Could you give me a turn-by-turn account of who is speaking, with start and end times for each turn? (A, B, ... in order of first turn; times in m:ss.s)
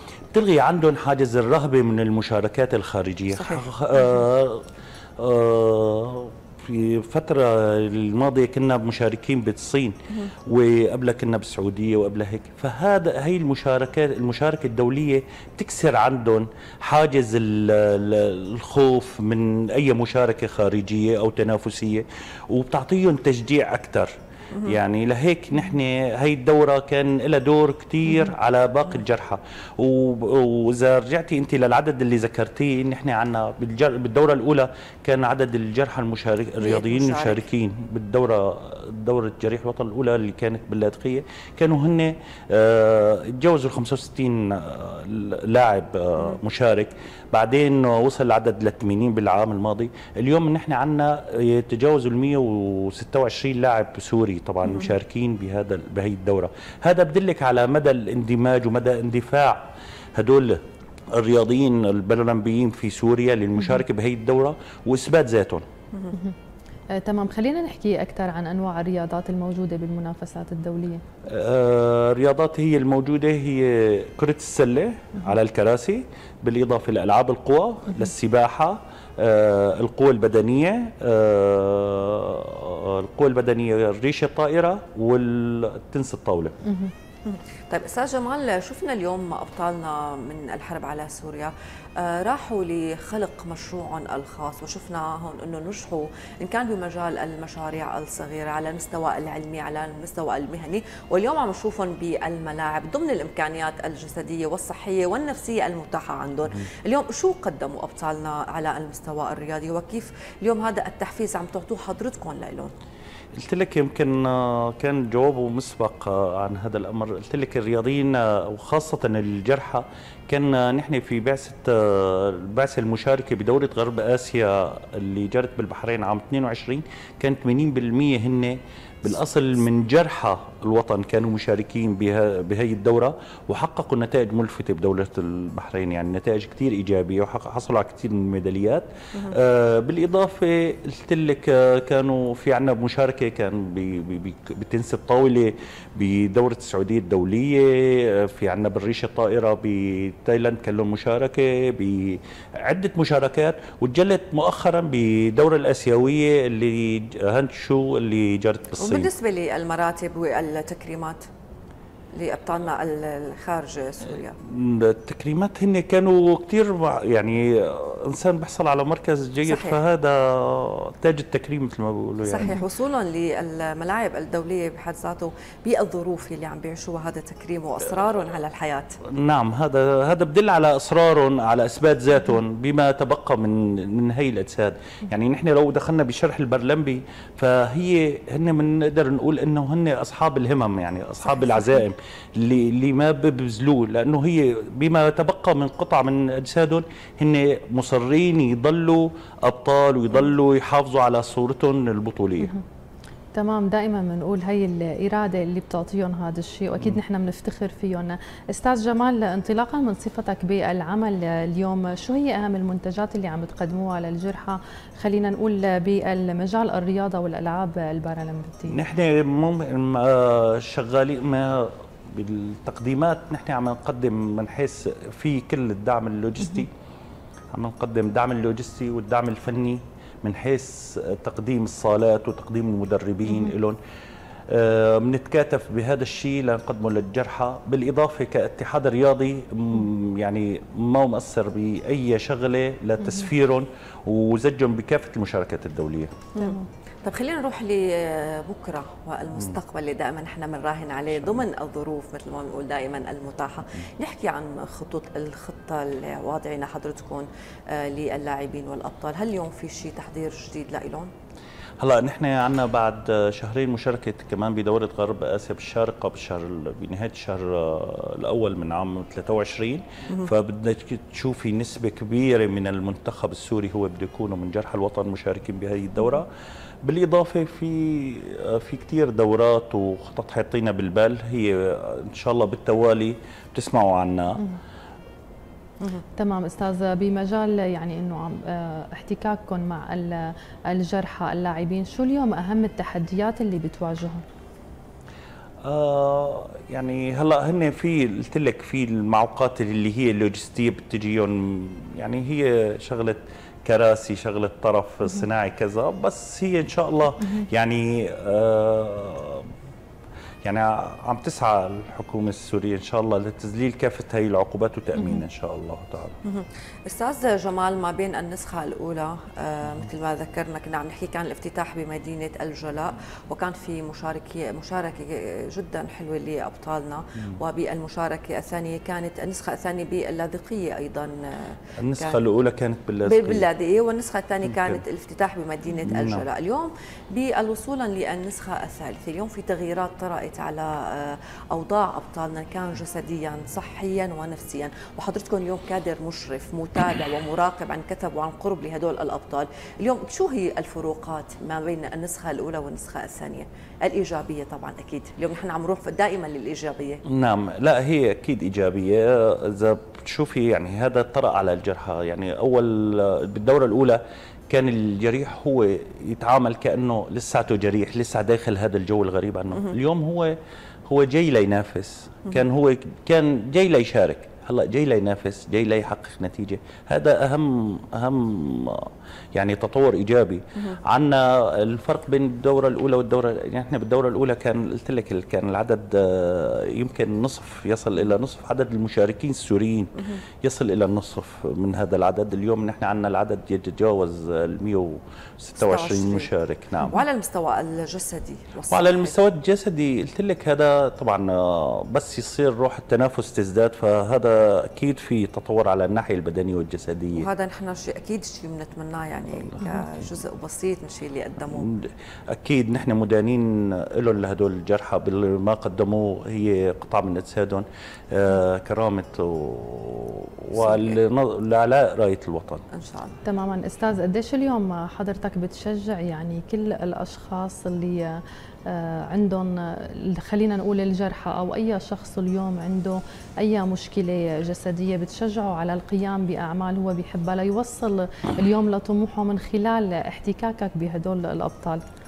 0:00.3-0:04.7 A
0:03.4-0:03.7 B
0:05.2-0:24.1 A
0:24.6-1:00.6 A
0:36.6-0:37.5 B
1:01.1-1:05.6 A
1:07.0-1:11.0 C
1:11.3-1:26.6 A
1:27.3-1:52.7 B
1:53.4-2:39.1 A
2:38.8-2:41.3 B
2:42.1-2:44.4 B
2:44.4-2:52.6 A
2:49.5-2:49.8 B
2:52.2-2:59.0 B
2:59.1-3:22.5 A
3:23.3-3:38.8 C
3:38.7-3:46.7 A
3:47.5-3:53.8 A
3:54.5-4:06.1 A
4:06.4-4:21.1 B
4:06.4-4:06.6 C
4:11.1-4:11.5 A
4:21.8-4:36.3 A
4:36.8-4:44.4 A
4:46.2-4:54.2 C
4:55.6-5:09.5 A
5:10.4-5:16.2 A
5:15.0-5:15.2 C
5:16.2-5:32.2 B
5:31.8-5:33.5 A
5:33.1-5:57.0 B
5:34.4-5:34.8 A
5:35.8-5:36.2 A
5:57.1-6:10.4 A
6:10.9-6:37.0 A
6:35.6-6:36.3 B
6:36.8-6:39.2 B
6:38.7-6:47.3 A
6:47.2-6:51.7 B
6:51.5-7:02.6 A
7:00.6-7:01.0 B
7:02.7-7:03.2 B
7:03.2-7:08.1 C
7:08.7-7:21.8 C